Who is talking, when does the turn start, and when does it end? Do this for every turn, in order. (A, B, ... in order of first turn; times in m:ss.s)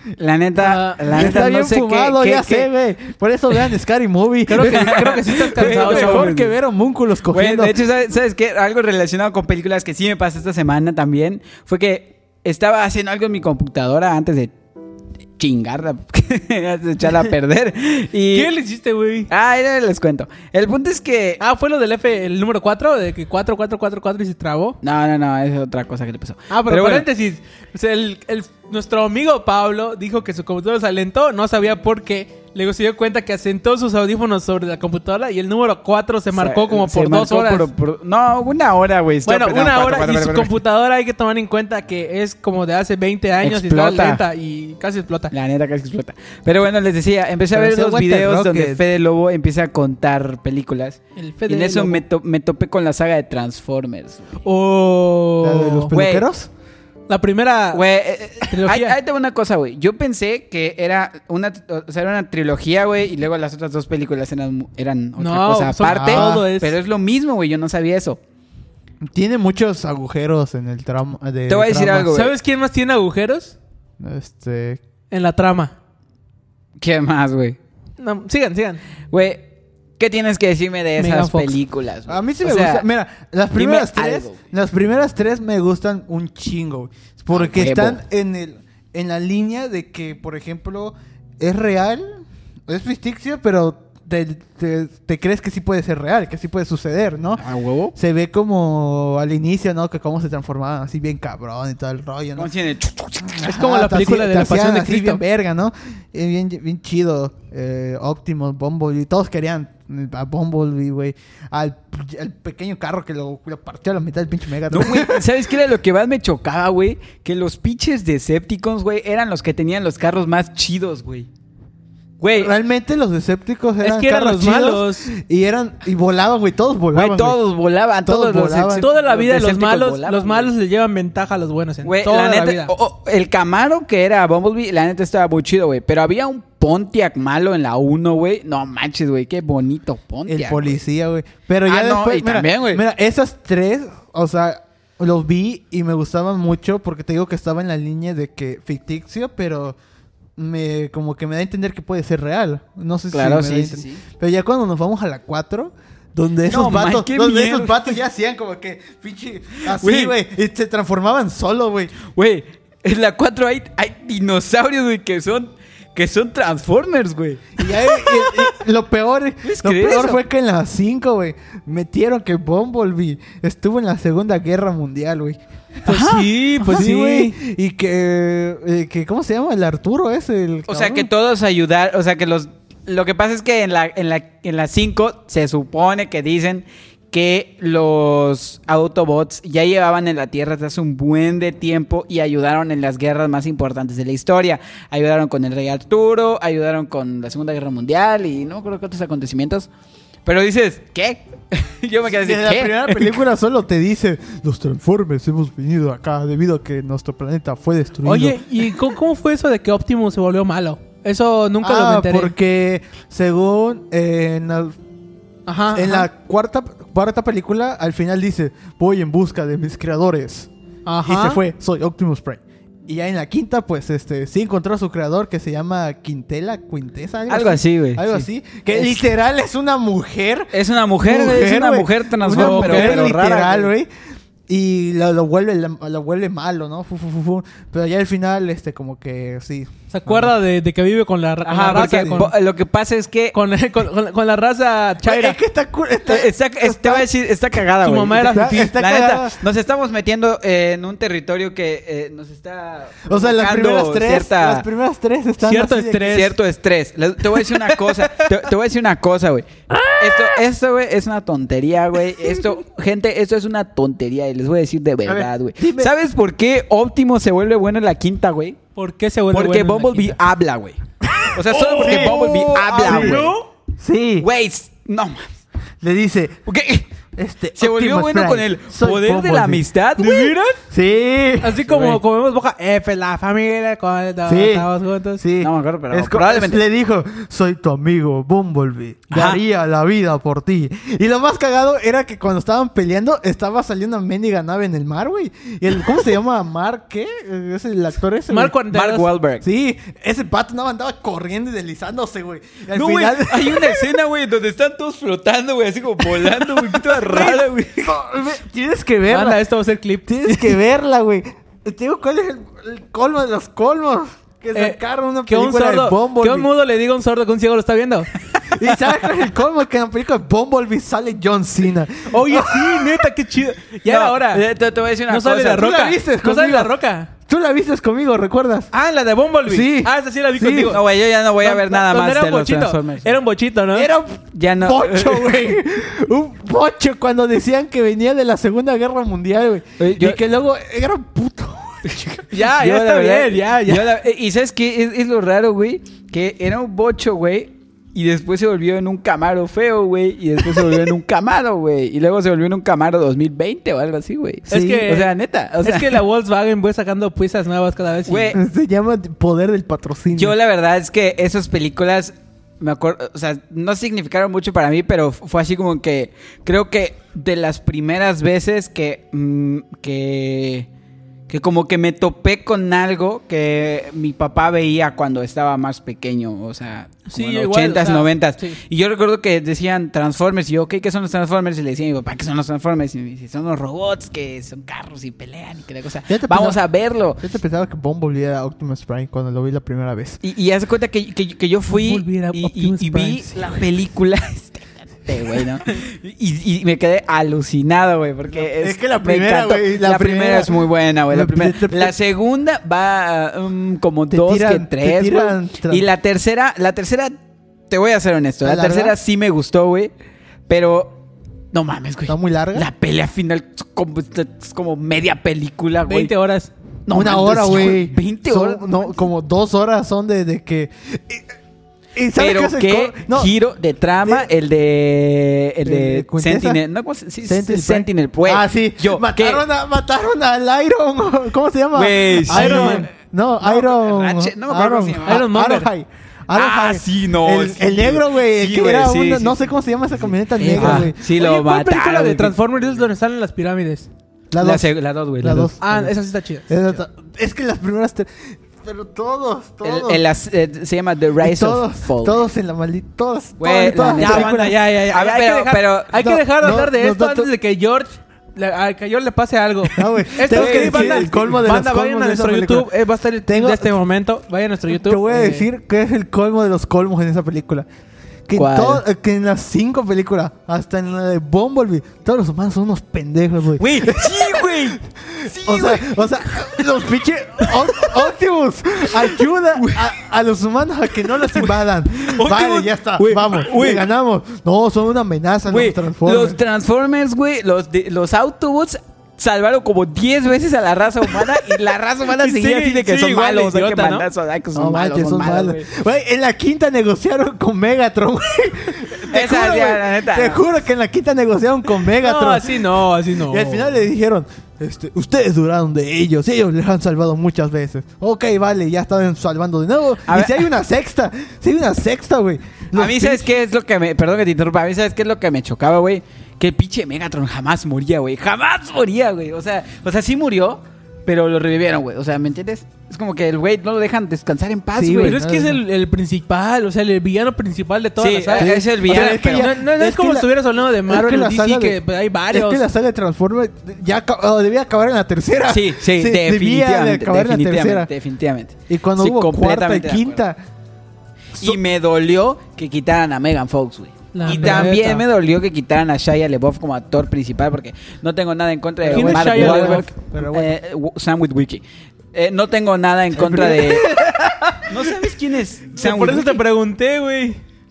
0:00.2-0:02.7 A
0:00.6-0:01.4 B
0:01.1-0:07.8 C
0:04.5-0:06.3 B
0:04.6-0:06.6 A
0:07.3-0:14.5 A
0:15.4-0:18.5 A
0:18.3-0:19.3 B
0:19.3-0:21.4 A
0:21.4-0:24.8 B
0:24.8-0:27.1 A
0:26.5-0:37.7 B
0:36.3-0:40.6 A
0:39.2-0:45.3 B
0:43.4-0:44.2 A
0:45.3-0:54.4 A
0:47.5-0:48.8 C
0:51.2-0:52.0 B
0:54.4-0:55.9 B
0:55.4-0:56.5 C
0:55.9-0:56.3 A
0:57.1-0:57.8 B
0:57.7-1:08.2 A
0:58.5-0:59.0 B
1:05.2-1:06.7 B
1:05.8-1:06.5 C
1:09.0-1:12.2 C
1:11.5-1:12.3 A
1:12.1-1:13.6 B
1:14.0-1:14.8 C
1:15.1-1:15.7 B
1:16.8-1:17.6 A
1:18.0-1:18.8 B
1:19.1-1:19.4 A
1:20.0-1:22.8 A
1:21.0-1:21.6 B
1:22.1-1:37.4 C
1:23.6-1:24.4 A
1:27.3-1:28.0 A
1:37.4-1:37.9 A
1:38.0-1:42.5 C
1:42.4-1:43.5 A
1:43.4-1:55.3 C
1:43.4-1:45.2 B
1:54.7-2:01.3 A
2:02.2-2:02.5 A
2:02.4-2:07.4 C
2:03.8-2:05.1 B
2:06.9-2:10.5 A
2:08.0-2:08.9 C
2:08.8-2:12.7 B
2:11.8-2:20.8 A
2:20.3-2:29.8 C
2:21.7-2:22.8 A
2:30.4-2:42.0 C
2:33.1-2:34.0 A
2:36.5-2:38.0 A
2:39.6-2:40.2 A
2:42.1-2:48.6 A
2:47.6-2:55.4 C
2:49.4-2:50.2 A
2:55.8-2:57.4 B
2:55.9-2:56.8 A
2:56.7-3:01.1 C
3:00.7-3:19.7 A
3:20.2-3:23.2 A
3:22.2-3:28.5 C
3:28.0-3:32.3 B
3:31.6-3:34.8 C
3:35.5-3:36.1 B
3:35.7-3:40.5 C
3:40.9-3:41.4 B
3:41.0-3:53.9 C
3:47.3-3:49.0 A
3:50.5-3:53.7 A
3:52.3-3:53.1 B
3:54.5-4:00.3 C
3:59.9-4:02.3 B
4:01.4-4:03.4 A
4:01.6-4:02.3 C
4:03.3-4:05.4 B
4:05.0-4:07.1 C
4:06.1-4:14.7 A
4:07.8-4:08.8 B
4:08.1-4:09.4 C
4:13.1-4:16.2 C
4:15.4-4:16.3 B
4:16.1-4:19.5 A
4:17.7-4:18.2 B
4:20.0-4:28.6 A
4:25.1-4:25.9 C
4:28.8-4:30.2 B
4:29.3-4:33.3 A
4:31.2-4:33.5 B
4:31.5-4:34.3 C
4:34.2-4:35.3 A
4:35.8-4:36.5 C
4:36.5-4:36.9 A
4:37.1-4:39.6 C
4:37.6-4:40.4 A
4:40.0-4:40.6 B
4:40.7-4:41.6 C
4:41.4-4:45.2 B
4:41.7-4:42.0 A
4:44.3-4:58.6 C
4:45.4-4:46.6 A
4:49.1-4:49.4 A
4:58.3-4:59.1 B
4:58.7-4:59.4 A
4:59.4-5:03.9 C
5:02.7-5:08.0 A
5:06.2-5:09.4 C
5:09.1-5:10.6 B
5:10.1-5:16.5 C
5:14.5-5:18.1 B
5:18.5-5:23.1 C
5:22.1-5:24.4 B
5:23.9-5:25.7 A
5:25.1-5:27.1 B
5:25.5-5:28.7 C
5:28.7-5:30.8 B
5:29.5-5:30.8 C
5:30.6-5:33.2 A
5:31.4-5:33.9 B
5:33.7-5:42.1 C
5:34.4-5:35.4 A
5:39.8-5:40.2 A
5:41.9-5:56.0 A
5:42.3-5:43.9 B
5:54.5-5:58.4 B
5:54.5-5:54.9 C
5:58.1-5:58.4 A
5:58.3-6:00.4 C
6:00.2-6:10.7 A
6:11.3-6:27.2 A
6:17.1-6:18.6 B
6:26.1-6:26.6 C
6:27.2-6:30.2 C
6:30.2-6:47.2 A
6:31.7-6:33.4 B
6:38.3-6:42.0 C
6:44.1-6:45.9 C
6:47.7-6:49.9 A
6:48.4-6:49.0 C
6:50.5-6:51.0 A
6:51.5-6:56.1 A
6:52.1-6:52.7 C
6:55.9-6:56.5 B
6:56.9-6:59.0 A
6:56.9-7:01.3 C
7:02.0-7:03.3 C
7:02.2-7:09.4 A
7:05.6-7:06.6 C
7:07.2-7:21.0 C
7:11.7-7:12.9 A
7:12.3-7:12.9 B
7:13.4-7:15.3 A
7:15.1-7:15.7 B
7:16.3-7:19.5 A
7:20.4-7:23.9 B
7:20.5-7:22.4 A
7:24.3-7:26.0 C
7:24.4-7:25.6 A
7:25.6-7:26.5 B
7:26.5-7:30.0 C
7:29.6-7:32.3 A
7:31.2-7:34.5 C
7:33.4-7:35.9 A
7:33.6-7:45.5 B
7:35.9-7:37.3 C
7:39.8-7:42.7 C
7:40.3-7:41.1 A
7:43.3-7:43.7 C
7:44.7-7:47.7 C
7:48.3-8:06.4 C
7:48.4-7:48.8 A
7:53.6-7:56.8 A
7:57.4-7:58.0 A
7:58.9-7:59.9 A
8:01.3-8:03.9 A
8:05.5-8:15.7 A
8:12.1-8:14.1 B
8:14.5-8:33.3 C
8:19.1-8:20.4 A
8:22.0-8:23.8 B
8:30.1-8:30.4 A
8:32.8-8:45.2 A
8:44.7-8:45.6 C
8:45.0-8:52.6 B
8:48.0-8:49.5 A
8:48.3-8:50.3 C
8:50.9-8:57.9 C
8:55.5-9:00.2 A
8:58.7-9:00.4 C
9:01.4-9:11.6 A
9:04.1-9:05.0 B
9:04.3-9:04.8 C
9:08.8-9:10.6 C
9:08.9-9:09.9 B
9:12.1-9:13.9 A
9:13.2-9:13.9 C
9:13.3-9:14.7 B
9:14.7-9:16.4 A
9:15.8-9:17.4 B